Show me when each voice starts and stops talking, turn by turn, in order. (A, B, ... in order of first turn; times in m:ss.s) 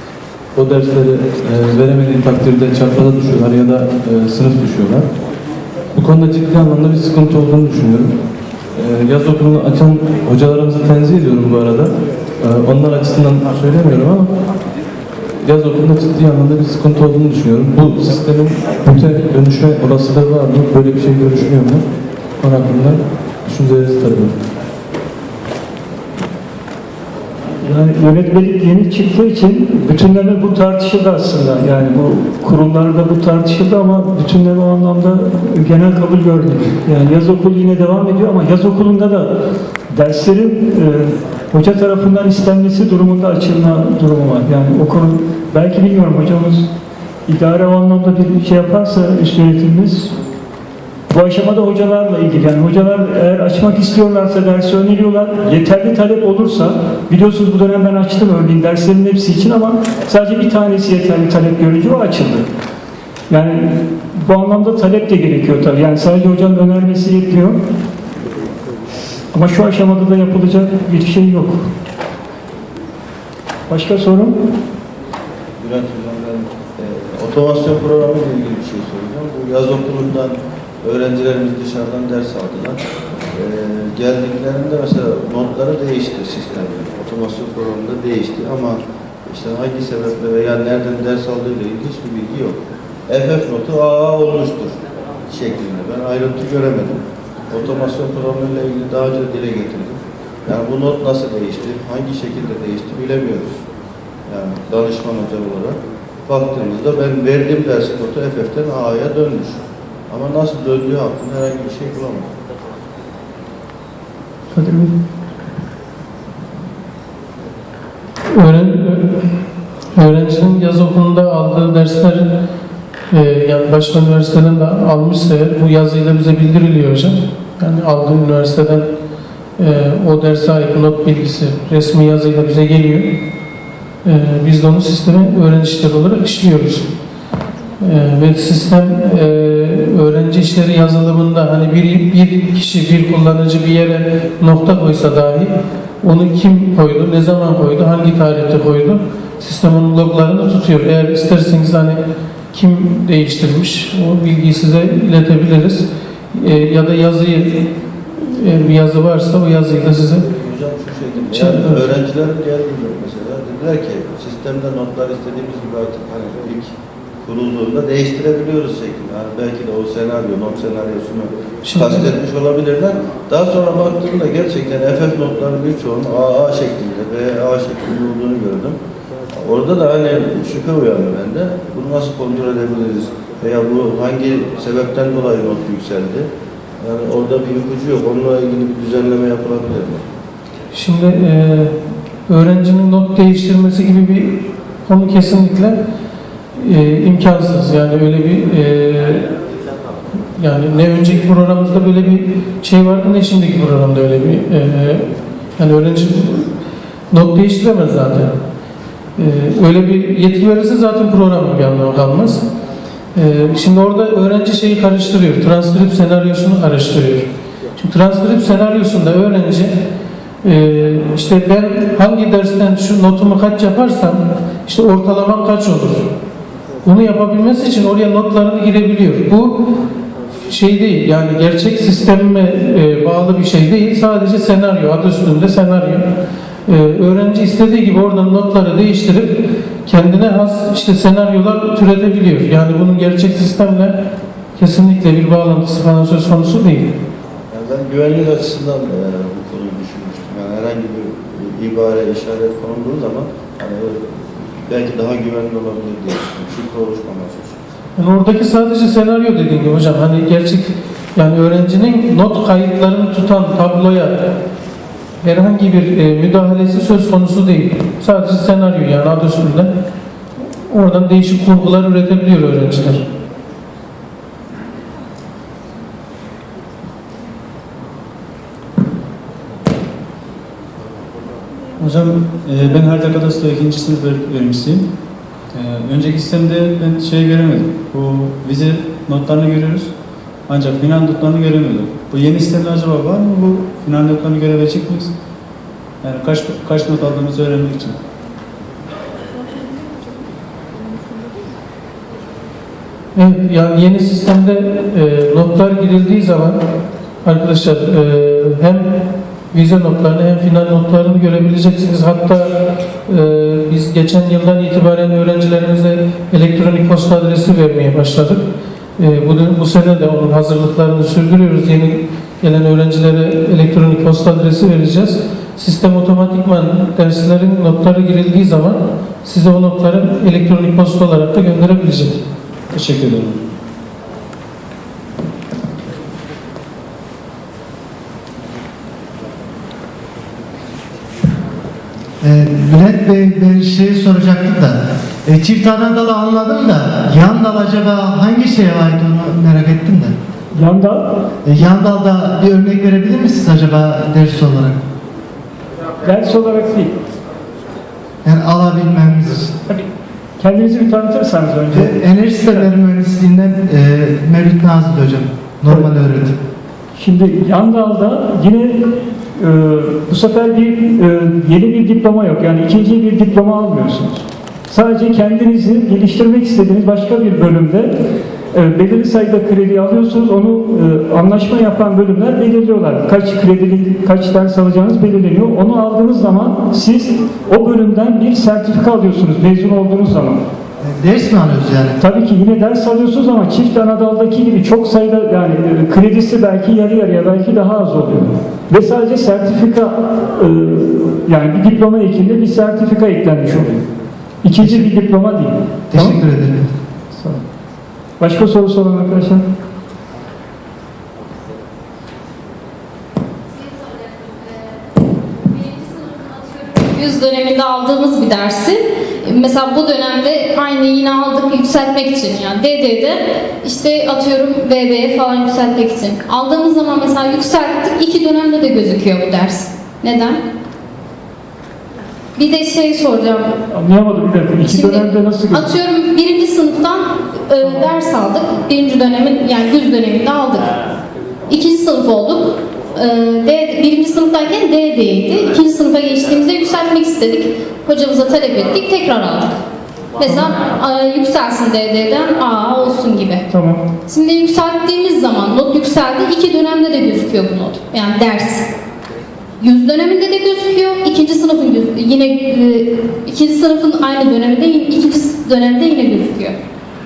0:00.5-0:05.1 A
0:05.9-0:08.2 A
0:08.7-0:14.3 A
0:15.4-0:21.9 A
0:22.4-0:24.4 A
0:27.6-0:39.3 B
0:39.9-0:46.7 B
0:47.3-0:50.1 B
0:51.1-1:02.4 B
1:03.3-1:07.6 B
1:09.3-1:11.6 B
1:13.7-1:14.3 B
1:15.6-1:22.8 C
1:23.3-1:43.6 C
1:44.3-1:49.6 C
1:50.1-1:52.3 C
1:54.6-1:54.9 D
1:58.3-1:59.2 D
2:00.0-2:02.3 D
2:03.1-2:08.9 D
2:09.6-2:13.2 D
2:14.0-2:16.9 D
2:17.8-2:25.5 D
2:26.0-2:32.0 D
2:32.5-2:37.7 D
2:38.2-2:40.3 D
2:40.3-2:58.8 C
2:41.3-2:42.0 D
2:51.6-2:52.1 D
2:59.3-3:06.3 C
3:06.8-3:10.0 C
3:10.7-3:11.7 D
3:12.3-3:15.8 D
3:16.6-3:19.3 D
3:20.4-3:26.5 D
3:27.1-3:28.3 D
3:29.2-3:32.4 D
3:33.1-3:39.7 D
3:40.4-3:46.1 D
3:46.8-3:49.7 D
3:50.4-3:56.1 D
3:56.7-4:03.9 D
4:04.6-4:06.9 D
4:07.5-4:17.6 C
4:18.0-4:24.2 D
4:25.2-4:29.7 D
4:30.7-4:33.0 D
4:41.8-4:44.9 E
4:45.5-4:49.9 E
4:50.5-4:55.1 E
4:56.0-4:58.0 E
5:03.1-5:06.6 D
5:07.2-5:08.9 D
5:09.5-5:12.5 D
5:13.1-5:18.4 D
5:19.0-5:32.2 D
5:32.7-5:33.4 E
5:42.2-5:50.1 F
5:50.5-5:51.1 B
5:51.4-5:54.8 F
5:56.0-5:56.9 B
5:58.2-5:59.5 F
6:00.4-6:02.7 B
6:01.7-6:06.4 F
6:07.0-6:17.9 B
6:18.5-6:30.4 B
6:30.8-6:31.9 F
6:32.0-6:43.8 B
6:44.4-6:46.2 B
6:44.6-6:44.8 F
6:45.9-6:46.7 F
6:47.1-6:47.4 B
6:48.2-6:49.4 B
6:53.5-6:54.9 G
6:55.4-7:10.4 G
7:12.4-7:13.5 G
7:13.7-7:15.7 B
7:14.6-7:20.7 G
7:17.6-7:17.9 B
7:21.5-7:29.5 G
7:30.2-7:33.5 G
7:33.5-7:33.9 B
7:34.0-7:38.6 G
7:39.6-7:46.5 G